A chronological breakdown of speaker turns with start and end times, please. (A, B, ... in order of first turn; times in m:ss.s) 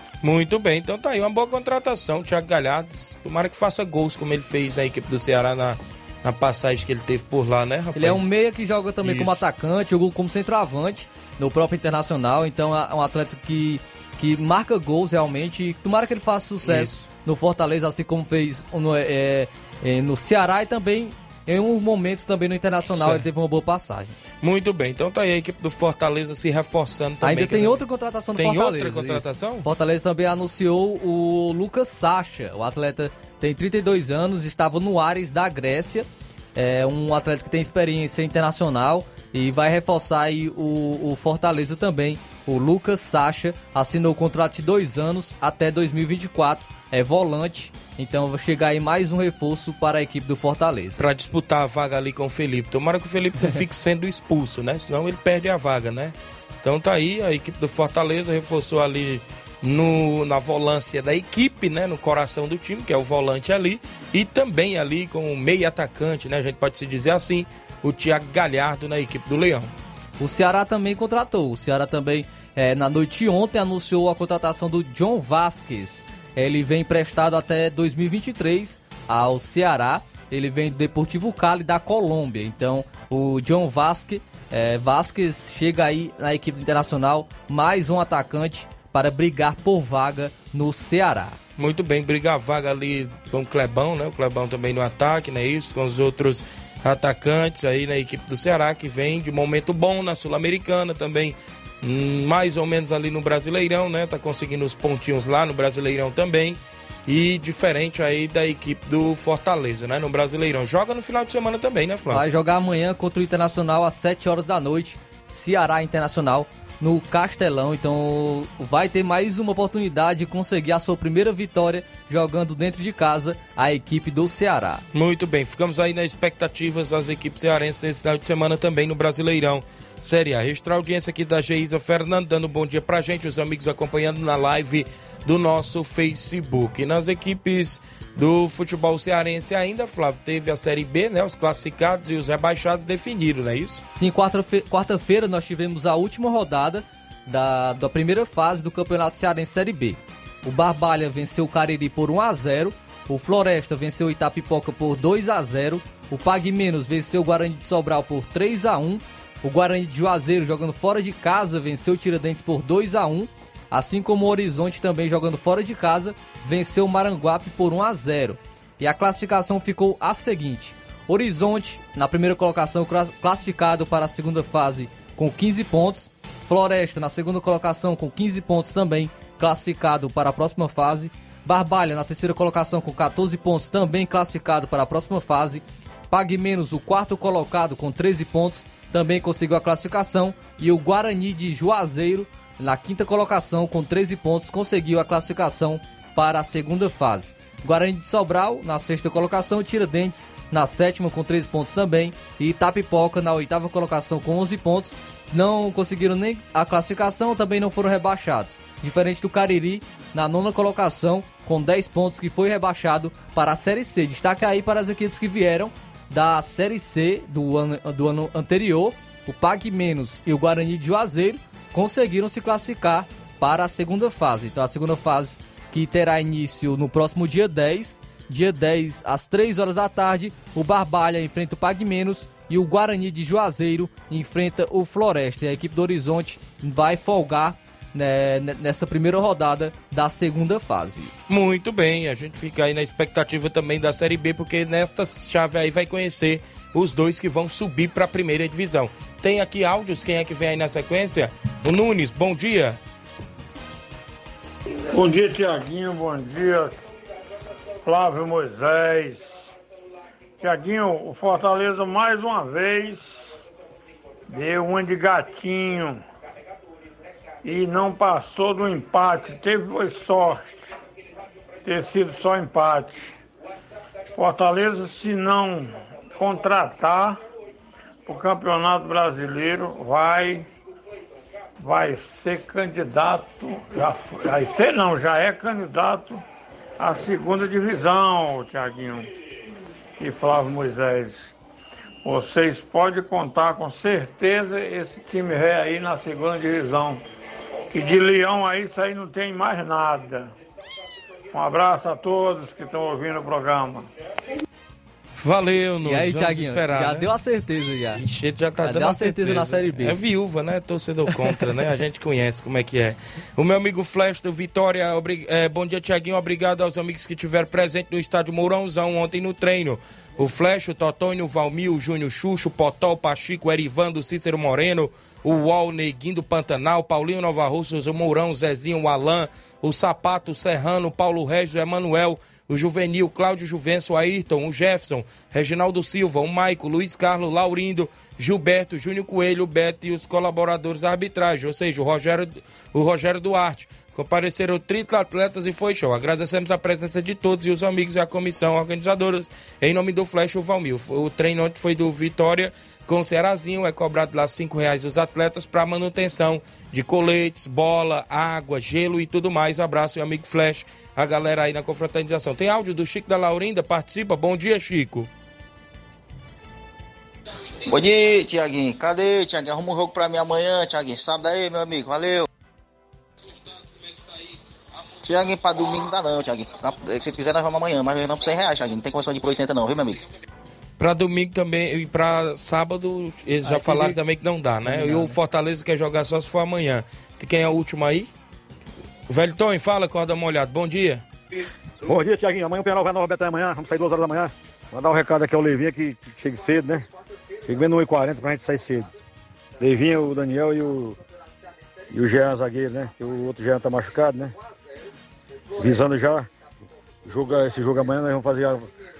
0:00.2-0:08.3 A
0:07.9-0:24.2 B
0:09.0-0:09.4 A
0:16.6-0:17.0 A
0:22.9-0:23.2 A
0:24.4-0:27.8 A
0:27.2-0:51.0 B
0:28.4-0:29.7 A
0:51.0-1:09.7 A
1:10.2-1:31.4 B
1:31.6-1:52.2 A
1:52.1-2:04.8 B
2:04.9-2:23.8 A
2:23.9-4:01.1 B
4:01.3-4:12.8 A
4:14.9-4:16.8 C
4:17.8-4:19.5 C
4:20.4-4:23.3 C
4:24.3-4:26.0 C
4:27.4-4:30.8 C
4:31.6-4:33.1 C
4:34.2-4:37.2 C
4:38.0-4:40.5 C
4:41.6-4:46.2 C
4:46.8-4:49.1 C
4:50.0-4:51.3 C
4:52.0-4:57.0 C
4:57.7-5:00.3 C
5:01.3-5:03.8 C
5:05.2-5:07.1 A
5:05.8-5:08.0 B
5:07.9-6:05.1 A
5:08.6-5:10.0 B
6:07.7-6:12.3 D
6:15.0-6:20.0 D
6:20.8-6:28.1 A
6:23.4-6:24.0 B
6:24.6-6:25.2 B
6:29.1-6:31.0 A
6:31.8-6:36.8 E
6:37.5-6:38.9 E
6:39.6-6:41.0 E
6:41.9-6:44.3 E
6:45.6-6:46.3 E
6:47.0-6:48.7 E